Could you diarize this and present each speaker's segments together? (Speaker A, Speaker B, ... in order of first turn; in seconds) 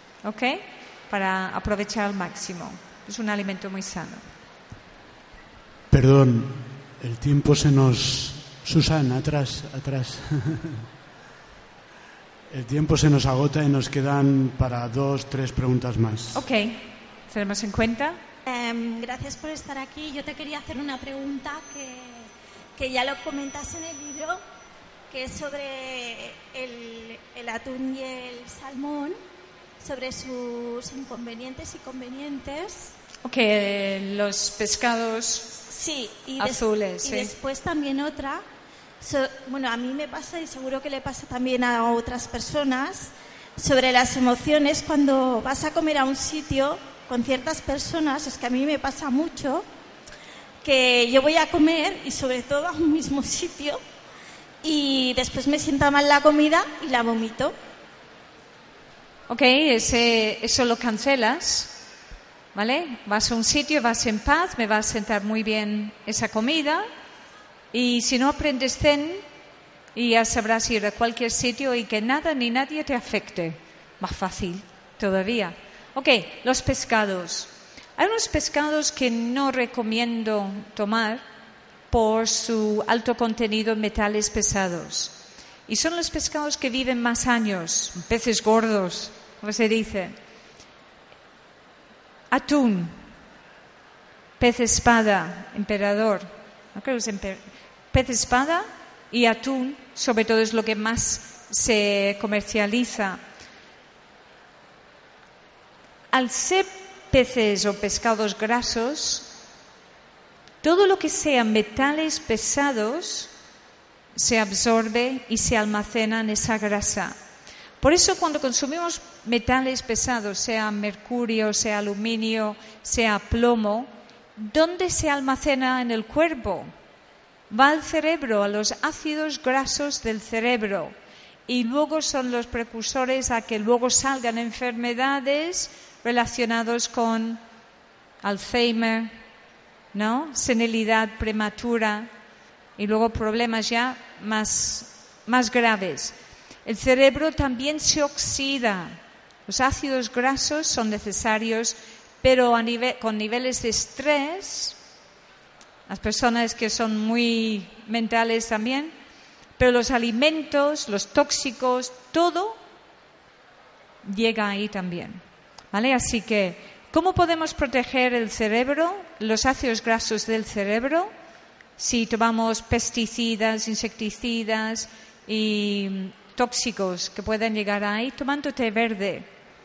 Speaker A: 0.2-4.2, 16.3-18.2, 33.2-35.5, 36.4-37.3, 59.3-61.7, 62.5-66.9, 67.7-69.2, 70.0-81.2, 81.9-85.1, 85.7-90.1, 92.3-93.0, 94.4-103.2, 106.1-109.3, 110.6-113.3, 114.2-117.2, 117.8-126.7, 127.5-130.9, 131.5-137.4, 138.2-139.1, 139.9-142.1, 142.8-154.8, 155.9-158.9, 159.6-162.6, 164.1-165.2, 165.7-171.1, 171.8-179.3
Speaker B: 5.9-10.8, 12.5-16.4
Speaker C: 18.5-24.4, 25.1-29.2, 29.8-33.0, 35.6-38.4, 39.0-49.6, 50.6-53.8, 54.6-57.5